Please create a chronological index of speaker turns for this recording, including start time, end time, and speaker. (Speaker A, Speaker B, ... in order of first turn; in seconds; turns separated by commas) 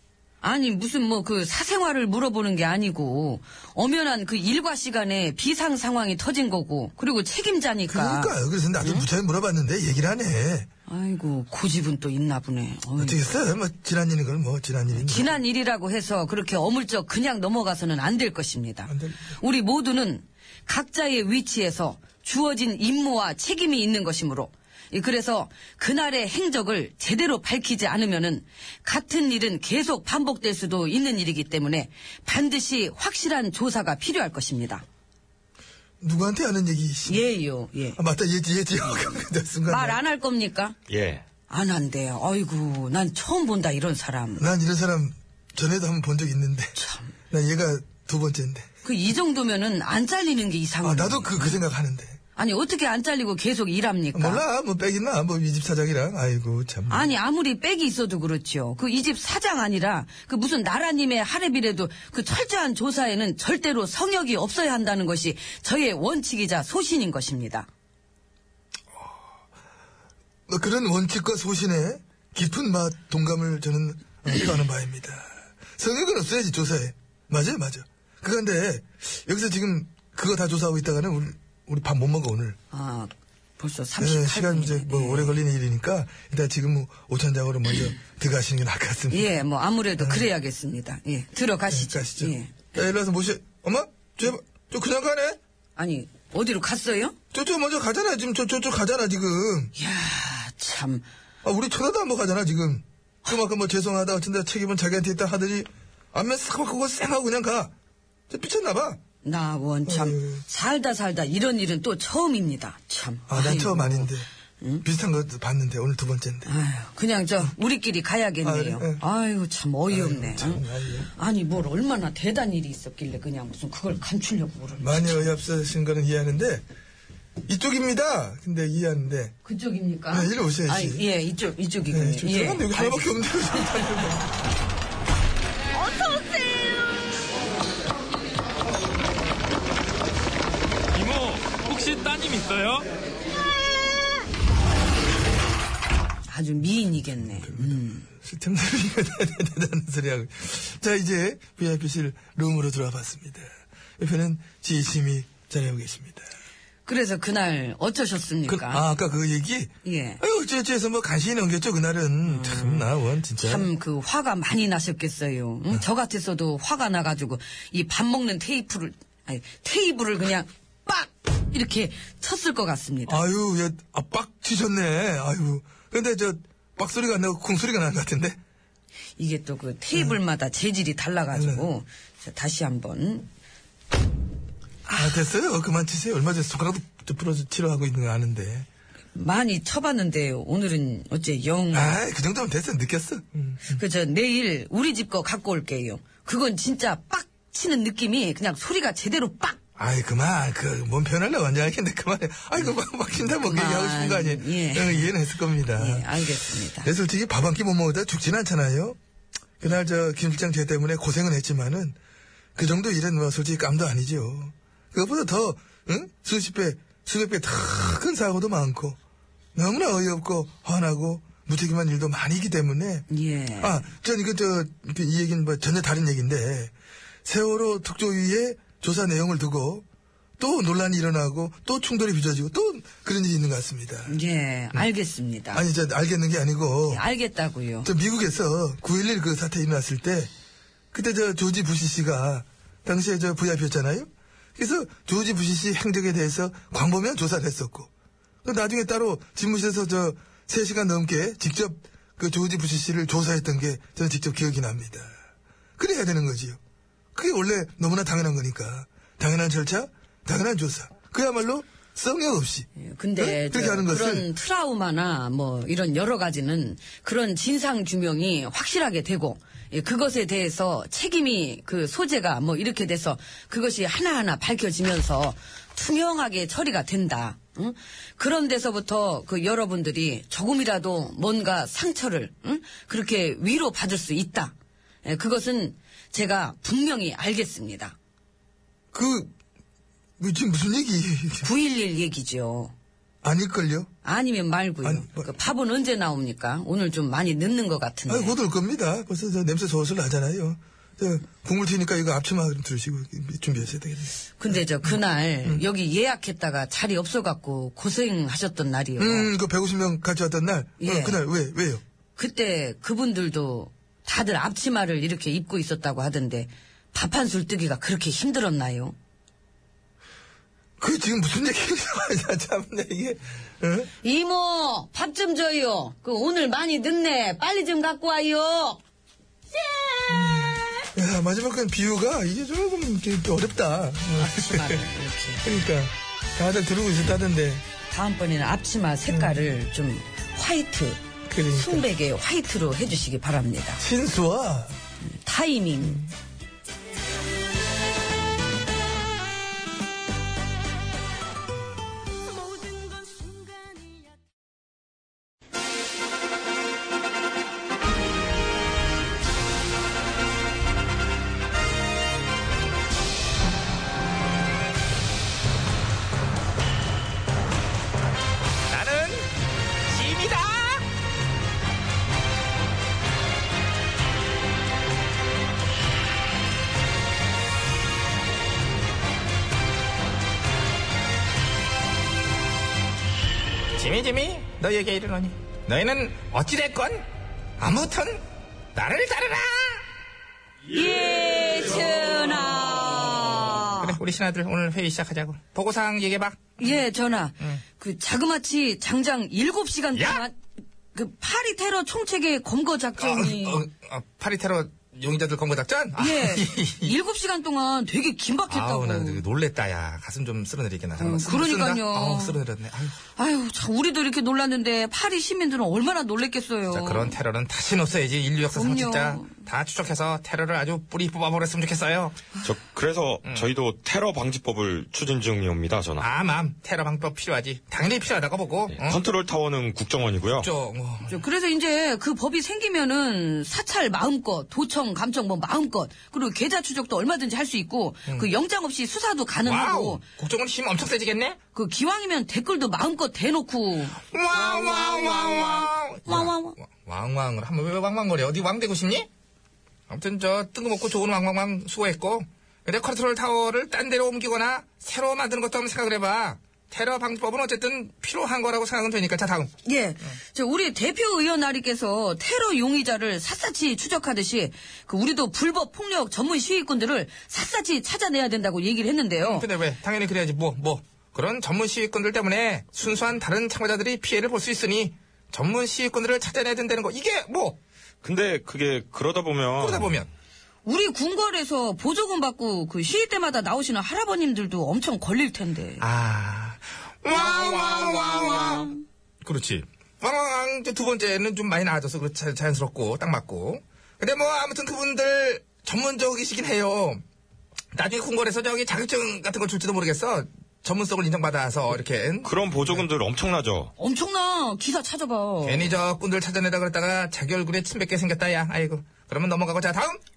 Speaker A: 0.4-9.1, Speaker B: 7.9-10.7, Speaker A: 10.9-13.2, Speaker B: 13.0-15.4, Speaker A: 14.9-34.9, Speaker B: 18.9-19.3, Speaker B: 36.0-37.3, Speaker A: 37.1-38.0, Speaker B: 38.0-40.0, Speaker A: 39.7-40.8, Speaker C: 40.9-41.2, Speaker A: 41.5-44.5, Speaker B: 44.4-46.8, Speaker A: 46.8-47.1, Speaker B: 47.3-48.7, Speaker A: 48.8-51.6, Speaker B: 50.8-52.2, Speaker A: 52.4-54.4, Speaker B: 54.1-57.1, Speaker A: 56.9-67.7, Speaker B: 70.5-82.6, Speaker A: 82.7-85.4, Speaker B: 84.0-89.3, Speaker A: 89.1-92.7, Speaker B: 90.0-90.3, Speaker B: 91.7-95.4, Speaker A: 95.8-97.2, Speaker B: 97.3-99.7, Speaker A: 99.8-101.1, Speaker B: 101.4-107.7, Speaker B: 108.3-109.0, Speaker A: 109.2-114.8, Speaker B: 109.9-110.4, Speaker B: 113.3-114.3, Speaker B: 114.8-116.5, Speaker A: 116.5-125.2, Speaker B: 118.4-119.0, Speaker B: 119.9-121.1, Speaker B: 124.8-126.7, Speaker B: 127.5-129.3, Speaker A: 129.4-133.8, Speaker B: 130.1-131.1, Speaker B: 131.9-134.3, Speaker A: 135.8-136.8, Speaker C: 141.0-142.8, Speaker A: 146.3-148.1, Speaker B: 147.4-156.3, Speaker A: 156.8-158.8, Speaker B: 158.5-163.7, Speaker A: 159.8-160.2, Speaker A: 162.3-162.9, Speaker A: 163.4-173.2, Speaker B: 173.1-178.4, Speaker A: 179.2-183.3, Speaker B: 181.3-181.7, Speaker A: 184.9-185.2, Speaker B: 185.0-188.7, Speaker A: 189.1-192.0, Speaker B: 191.7-193.8, Speaker A: 193.7-199.6, Speaker B: 199.8-209.0, Speaker A: 203.4-205.2, Speaker A: 205.7-206.9, Speaker B: 209.6-212.0, Speaker B: 212.6-219.0, Speaker B: 219.6-223.1, Speaker A: 223.1-223.9, Speaker B: 223.6-226.7, Speaker B: 227.2-229.8, Speaker B: 230.4-234.2, Speaker A: 234.1-235.6, Speaker B: 235.5-237.0, Speaker A: 236.9-237.9, Speaker B: 237.8-240.3, Speaker B: 240.9-247.9, Speaker B: 248.4-255.2, Speaker B: 255.8-256.6, Speaker B: 257.1-264.3, Speaker A: 262.8-288.0, Speaker B: 288.9-289.3, Speaker B: 290.2-291.5, Speaker A: 291.4-292.7, Speaker B: 293.2-293.9, Speaker A: 294.0-298.4, Speaker B: 294.8-295.3, Speaker B: 298.1-304.1, Speaker A: 304.4-309.3, Speaker B: 304.8-305.6, Speaker B: 309.0-311.8, Speaker A: 310.8-311.2, Speaker A: 312.2-319.0, Speaker B: 320.8-323.9, Speaker A: 324.0-328.8, Speaker A: 329.5-330.6, Speaker B: 330.1-334.8, Speaker A: 334.1-335.5, Speaker B: 335.4-337.6, Speaker A: 337.9-341.0, Speaker B: 339.1-339.5, Speaker B: 341.3-341.9, Speaker A: 341.5-343.8, Speaker B: 343.8-344.8, Speaker A: 345.1-346.1, Speaker D: 368.7-369.3, Speaker D: 369.9-370.9, Speaker D: 383.8-387.1, Speaker D: 387.6-388.2, Speaker D: 388.8-389.9, Speaker A: 390.7-394.0, Speaker D: 393.8-396.8, Speaker A: 396.6-400.4, Speaker D: 399.9-400.2, Speaker A: 400.9-403.7, Speaker D: 403.0-406.9, Speaker A: 406.0-409.2, Speaker D: 408.5-413.0, Speaker A: 411.0-412.4, Speaker A: 413.1-417.2, Speaker D: 416.7-422.3, Speaker A: 418.5-419.4, Speaker C: 422.4-426.1, Speaker D: 426.0-429.0, Speaker C: 428.7-430.5, Speaker D: 430.4-431.2, Speaker A: 431.1-440.0, Speaker D: 439.4-441.4, Speaker A: 441.5-446.6, Speaker D: 444.1-449.1, Speaker D: 449.9-459.5, Speaker A: 459.6-469.5, Speaker D: 469.2-477.6, Speaker C: 478.0-480.0, Speaker D: 479.6-480.1, Speaker A: 480.6-485.9, Speaker D: 485.8-488.7, Speaker A: 487.1-488.8, Speaker D: 489.2-497.0, Speaker D: 497.7-502.9, Speaker C: 502.2-503.7, Speaker A: 503.8-505.7, Speaker D: 505.4-510.0